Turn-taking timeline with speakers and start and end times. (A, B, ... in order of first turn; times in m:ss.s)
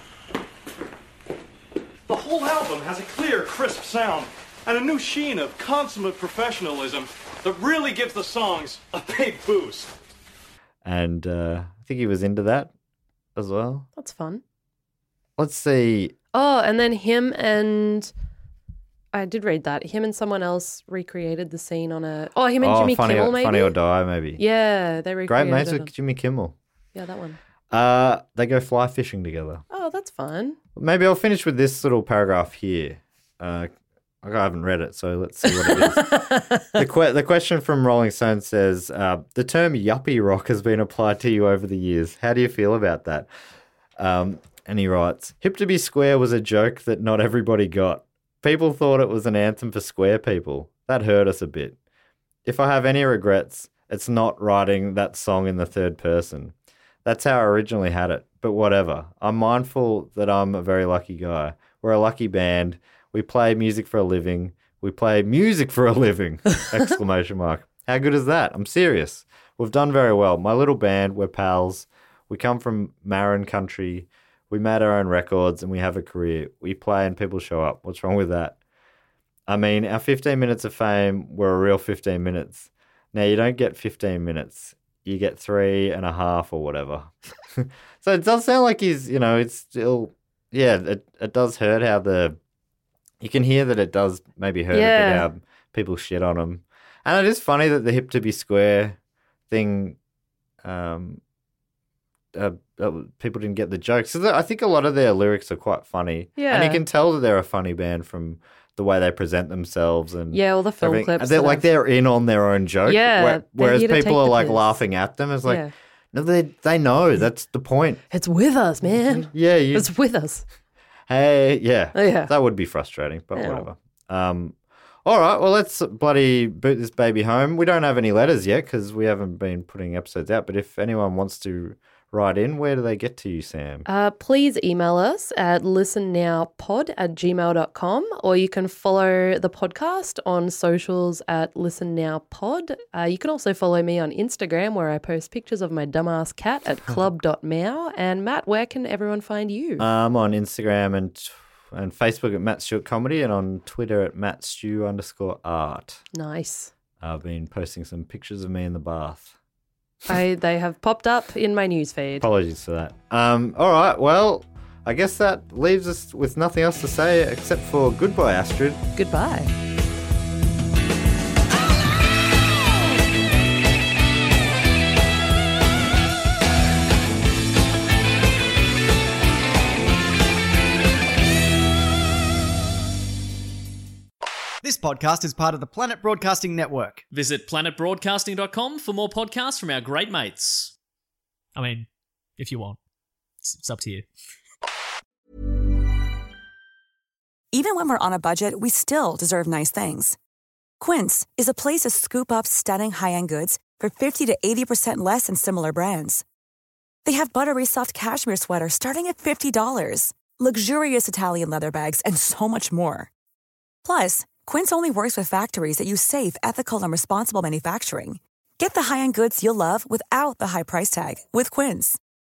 0:02.1-0:09.9 A
0:10.8-0:12.7 B
0:13.4-0:13.9 B
0:14.0-0:14.4 C
0:15.4-0:16.1 B
0:16.3-0:18.1 C
0:19.1-0:23.7 C
0:22.6-0:24.4 B
0:24.4-0:25.9 C
0:25.2-0:26.5 B
0:26.9-0:27.4 C
0:27.7-0:29.6 B
0:29.7-0:30.6 C
0:30.8-0:33.7 B
0:34.2-0:43.3 B
0:35.7-0:36.6 C
0:44.0-0:51.8 B
0:52.4-0:56.5 B
0:57.0-1:18.6 B
1:19.5-1:32.4 B
1:33.2-1:39.0 B
1:34.7-1:35.3 C
1:39.5-1:40.0 B
1:40.6-1:41.2 B
1:42.3-1:58.0 B
1:46.4-1:46.8 C
1:50.3-1:51.6 C
1:52.8-1:54.8 C
1:55.4-1:55.7 C
1:58.1-2:00.4 C
1:58.9-1:59.9 B
2:01.1-2:13.8 B
2:01.9-2:02.3 C
2:03.3-2:03.7 C
2:13.8-2:29.8 C
2:29.8-2:36.0 B
2:36.1-2:36.7 C
2:37.0-2:39.3 B
2:40.1-2:42.2 C
2:42.2-2:48.8 B
2:49.0-2:49.5 C
3:04.6-3:07.0 D
3:07.1-3:10.7 E
3:11.5-3:11.9 E
3:12.4-3:12.8 E
3:13.4-3:14.0 E
3:17.5-3:20.2 F
3:20.8-3:26.2 F
3:27.0-3:33.1 F
3:33.8-3:42.0 F